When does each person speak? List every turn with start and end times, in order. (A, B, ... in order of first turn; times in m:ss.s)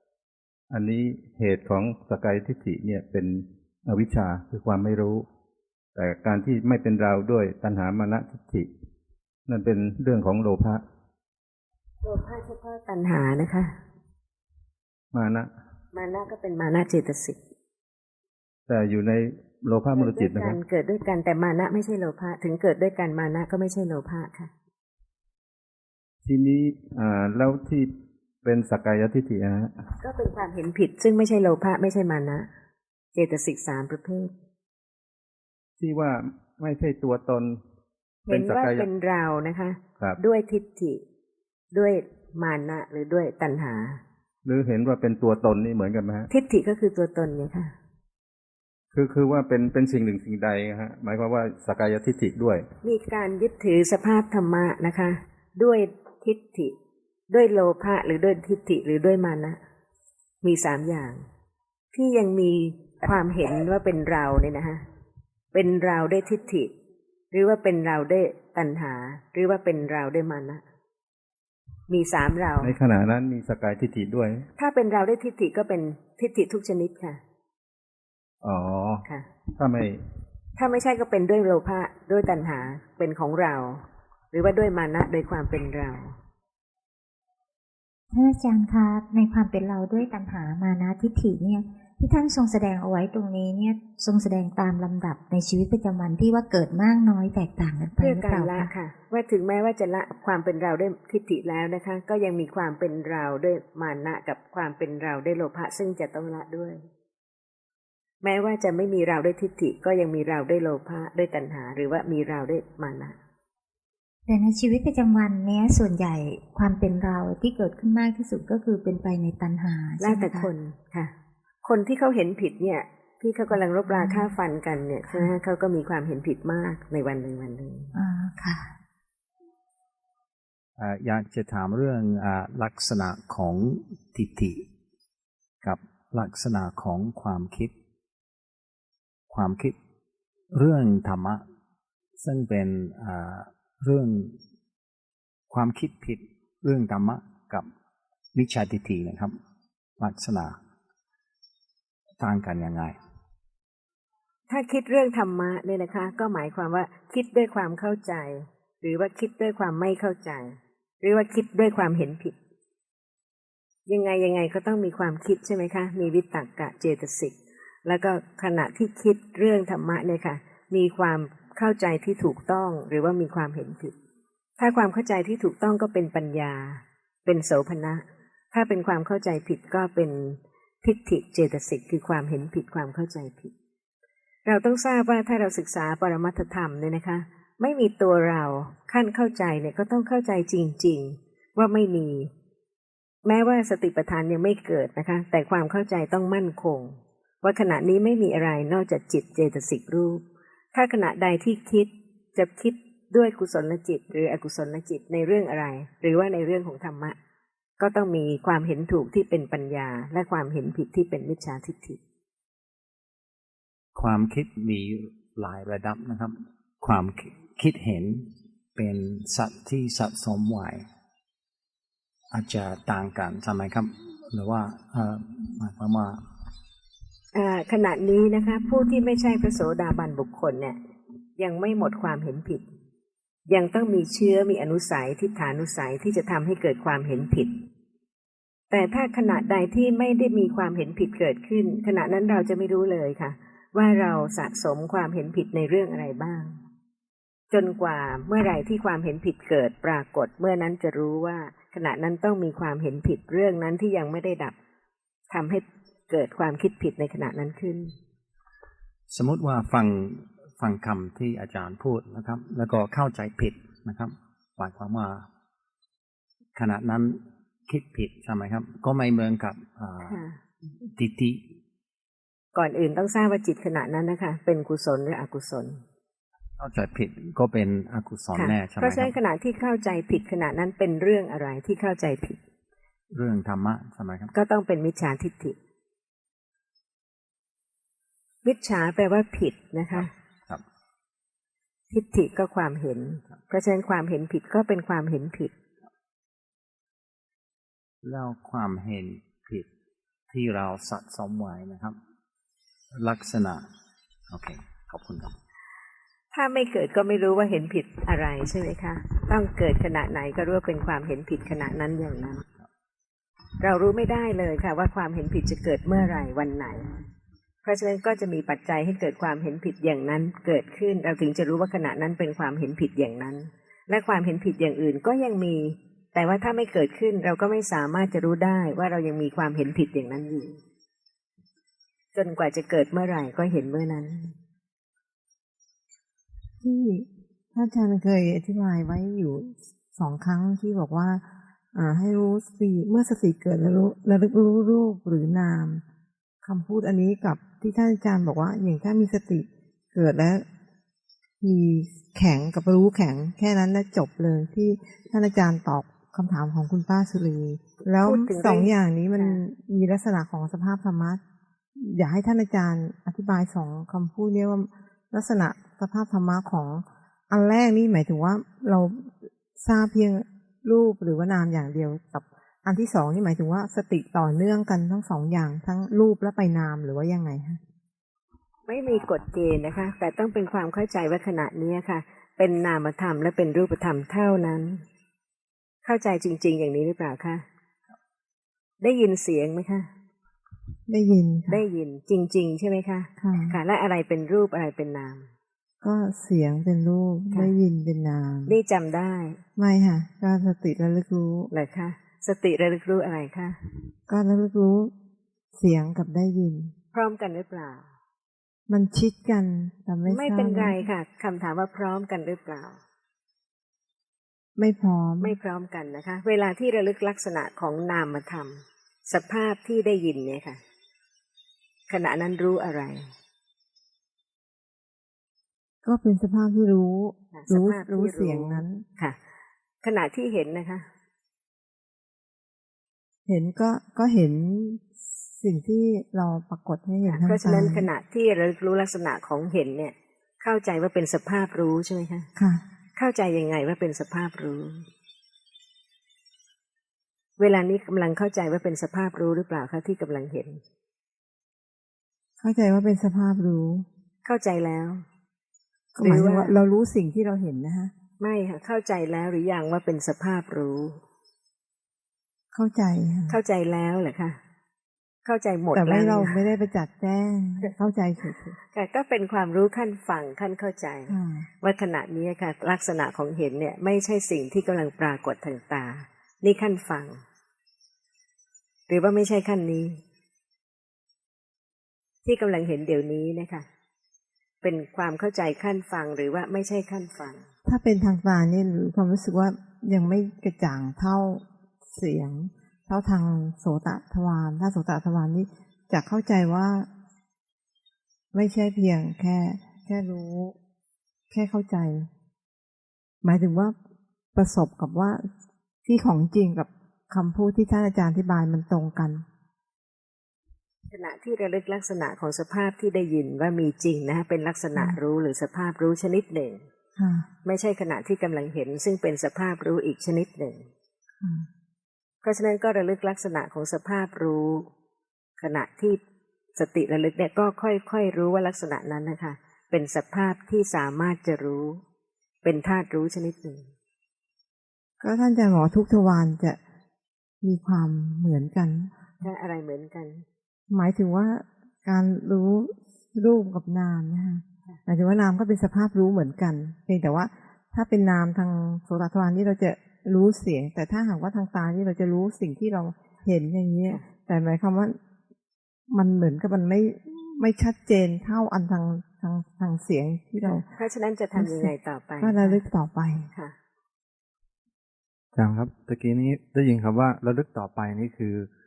0:00.7-0:05.2 A
0:06.0-0:08.7 A
0:09.5-0:10.8 A
0:12.0-0:13.7 B
0:15.1-0:15.5 A
0:15.9-0:17.4 B
0:18.7-0:20.6 A
0:19.9-0:24.5 B
0:26.2-0:27.9 A
0:28.4-0:29.8 A
0:30.0-0:32.5 B
0:33.1-0:34.3 B
0:35.8-0:37.6 A
0:38.3-0:41.0 B
0:38.3-0:38.9 A
0:41.7-0:44.0 B
0:44.4-0:46.3 A
0:46.3-0:47.7 B
0:48.9-0:52.6 A
0:52.8-0:56.7 B
0:57.3-0:59.6 B
1:00.4-1:01.2 B
1:01.9-1:04.8 B
1:05.5-1:06.7 B
1:07.3-1:10.6 B
1:11.9-1:12.7 B
1:12.6-1:14.5 A
1:14.6-1:17.2 B
1:18.4-1:20.0 A
1:20.6-1:26.1 B
1:28.1-1:38.7 C
1:38.0-1:46.8 B
1:48.2-1:53.2 B
1:54.3-2:00.5 C
2:00.0-2:01.1 B
2:01.6-2:07.9 B
2:03.9-2:04.3 C
2:07.9-2:08.7 C
2:10.8-2:14.6 D
2:15.6-2:17.7 D
2:19.3-2:19.8 D
2:20.5-2:21.4 D
2:22.2-2:24.4 D
2:25.5-2:27.7 D
2:28.3-2:29.3 D
2:30.0-2:30.6 D
2:32.2-2:33.0 D
2:34.5-2:42.4 B
2:43.9-2:53.9 B
2:54.6-3:03.5 B
3:04.4-3:12.3 B
3:13.2-3:20.2 B
3:20.7-3:27.2 B
3:27.8-3:32.0 B
3:33.9-3:40.9 D
3:42.3-3:46.2 D
3:47.3-3:50.8 B
3:51.4-3:52.6 B
3:53.5-3:57.6 B
3:58.7-4:06.6 B
4:07.5-4:14.6 B
4:15.3-4:17.9 B
4:19.1-4:25.2 D
4:26.5-4:30.2 D
4:30.0-4:30.4 B
4:30.8-4:31.4 D
4:32.5-4:35.8 B
4:36.6-4:39.1 D
4:38.3-4:42.4 B
4:43.1-4:44.3 D
4:44.3-4:45.6 B
4:48.4-4:50.1 B
4:49.9-4:50.6 D
4:51.9-4:55.5 B
4:58.0-4:59.7 D
5:00.3-5:02.0 D
5:02.9-5:03.6 D
5:04.3-5:05.3 D
5:06.3-5:12.4 B
5:13.6-5:16.9 B
5:17.6-5:30.6 B
5:32.1-5:34.3 B
5:36.6-5:45.8 E
5:46.4-5:50.4 E
5:51.4-6:01.2 E
5:58.0-5:59.4 B
6:01.8-6:17.6 E
6:18.7-6:24.8 B
6:25.8-6:27.4 B
6:28.8-6:29.9 B
6:30.9-6:31.6 E
6:31.5-6:35.3 B
6:33.2-6:33.6 E
6:35.8-6:38.5 E
6:38.5-6:39.4 B
6:39.6-6:41.5 E
6:41.5-6:43.6 B
6:44.1-6:44.9 E
6:45.5-6:46.7 E
6:46.9-6:47.9 B
6:48.7-6:50.8 E
6:50.0-6:52.8 B
6:54.6-6:55.4 E
6:55.2-7:00.6 B
7:01.9-7:03.1 B
7:05.8-7:08.8 E
7:07.3-7:09.2 B
7:09.8-7:10.9 B
7:13.2-7:17.9 E
7:17.0-7:22.3 B
7:22.4-7:22.6 E
7:23.0-7:24.8 B
7:27.4-7:30.6 B
7:32.4-7:33.8 E
7:34.2-7:35.0 B
7:36.0-7:37.9 E
7:36.0-7:36.5 B
7:38.2-7:41.0 B
7:42.5-7:43.4 E
7:43.3-7:44.4 B
7:45.2-7:46.4 B
7:45.7-7:48.6 E
7:48.7-7:57.2 B
7:51.1-7:51.4 E
7:58.9-8:00.0 B
8:02.2-8:03.6 B
8:04.6-8:07.5 B
8:07.6-8:16.9 E
8:18.3-8:20.6 E
8:21.3-8:22.1 E
8:23.2-8:23.7 E
8:24.3-8:25.3 E
8:25.8-8:29.2 E
8:30.9-8:36.6 B
8:37.0-8:37.2 E
8:37.4-8:40.7 B
8:41.2-8:41.5 E
8:42.2-8:44.7 B
8:45.4-8:46.0 B
8:46.6-8:51.8 B
8:52.4-8:53.7 B
8:55.0-8:56.6 E
8:57.4-8:58.9 E
8:59.2-9:00.2 B
9:00.7-9:15.0 E
9:15.9-9:20.6 E
9:20.7-9:22.6 B
9:21.4-9:23.3 E
9:25.3-9:28.5 F